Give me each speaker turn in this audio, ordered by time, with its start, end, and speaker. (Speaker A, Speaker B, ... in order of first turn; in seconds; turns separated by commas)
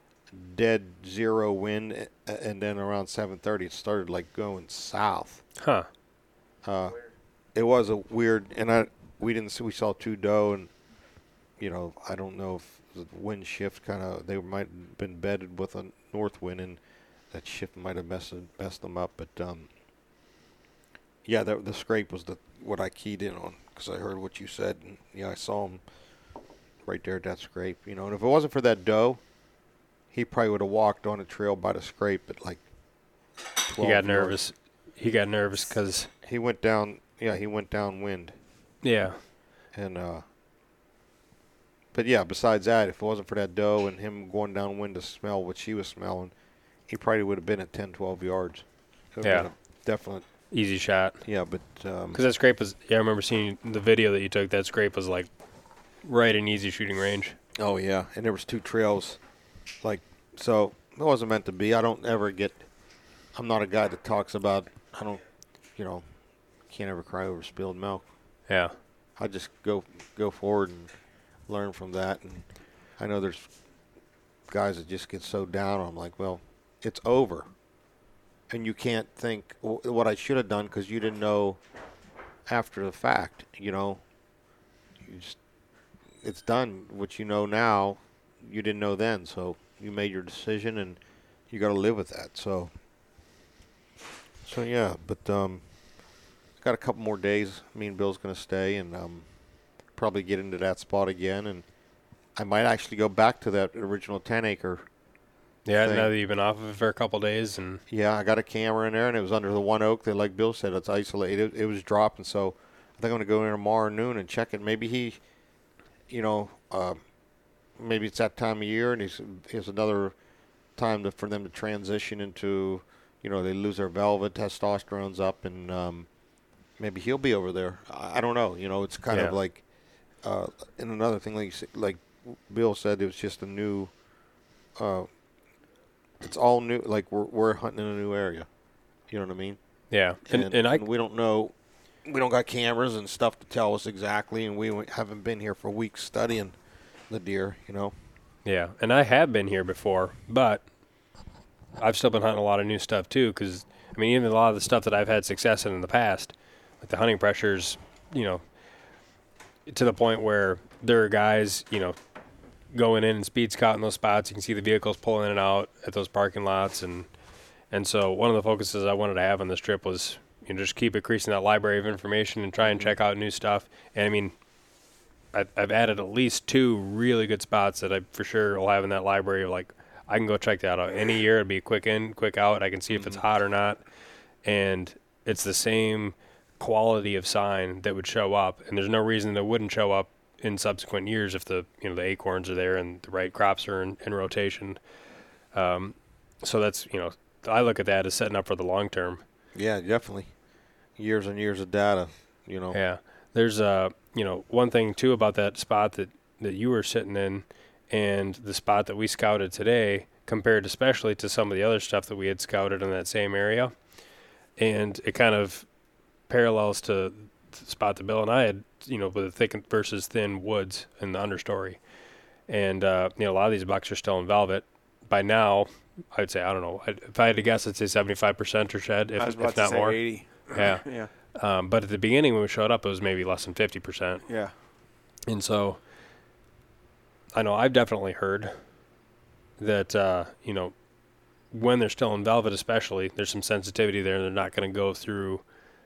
Speaker A: 0.3-5.4, Speaker B: 5.6-5.9, Speaker A: 6.6-7.0, Speaker A: 7.5-10.7, Speaker A: 11.6-19.7, Speaker A: 21.2-25.8, Speaker A: 26.8-29.2, Speaker A: 30.1-32.6, Speaker A: 33.6-34.4, Speaker B: 33.8-36.1, Speaker A: 36.2-38.4, Speaker B: 38.8-39.2, Speaker A: 39.7-40.2, Speaker A: 41.9-46.3, Speaker A: 46.9-50.4, Speaker B: 49.2-49.5, Speaker B: 50.5-51.2, Speaker A: 51.2-52.2, Speaker B: 52.1-55.3, Speaker B: 56.0-57.4, Speaker A: 57.5-59.2, Speaker A: 59.8-62.7, Speaker A: 63.3-65.2, Speaker A: 65.7-66.1, Speaker A: 66.6-68.0, Speaker B: 68.5-68.7, Speaker A: 69.2-70.9, Speaker A: 71.5-73.5, Speaker A: 74.5-77.5, Speaker A: 78.5-81.6, Speaker A: 82.5-84.0, Speaker A: 85.0-85.4, Speaker A: 86.2-91.0, Speaker A: 91.5-92.7, Speaker A: 94.4-95.7, Speaker A: 96.6-99.3, Speaker A: 99.9-101.6, Speaker A: 102.3-104.9, Speaker B: 105.6-107.8, Speaker A: 105.8-106.1, Speaker A: 107.9-115.2, Speaker A: 116.1-117.0, Speaker A: 117.8-120.1, Speaker A: 120.8-126.1, Speaker A: 126.8-129.6, Speaker C: 127.9-128.2, Speaker B: 129.1-129.3, Speaker A: 130.2-133.9, Speaker A: 134.8-135.1, Speaker A: 136.2-138.5, Speaker A: 139.1-139.6, Speaker B: 139.9-140.8, Speaker A: 140.2-146.6, Speaker A: 147.1-147.9, Speaker B: 148.4-150.7, Speaker B: 151.8-158.4, Speaker B: 159.7-162.0, Speaker B: 162.7-167.1, Speaker B: 167.7-174.3, Speaker A: 172.6-172.9, Speaker B: 175.3-183.8, Speaker A: 182.9-183.2, Speaker B: 184.4-194.8, Speaker B: 195.5-199.2, Speaker A: 199.5-200.3, Speaker A: 201.0-202.8, Speaker B: 202.7-213.8, Speaker B: 214.6-215.7, Speaker B: 216.3-221.9, Speaker B: 222.4-234.3, Speaker C: 229.2-231.1, Speaker C: 234.3-234.5, Speaker B: 235.3-235.8, Speaker B: 237.3-238.6, Speaker B: 239.6-240.7, Speaker B: 241.5-245.4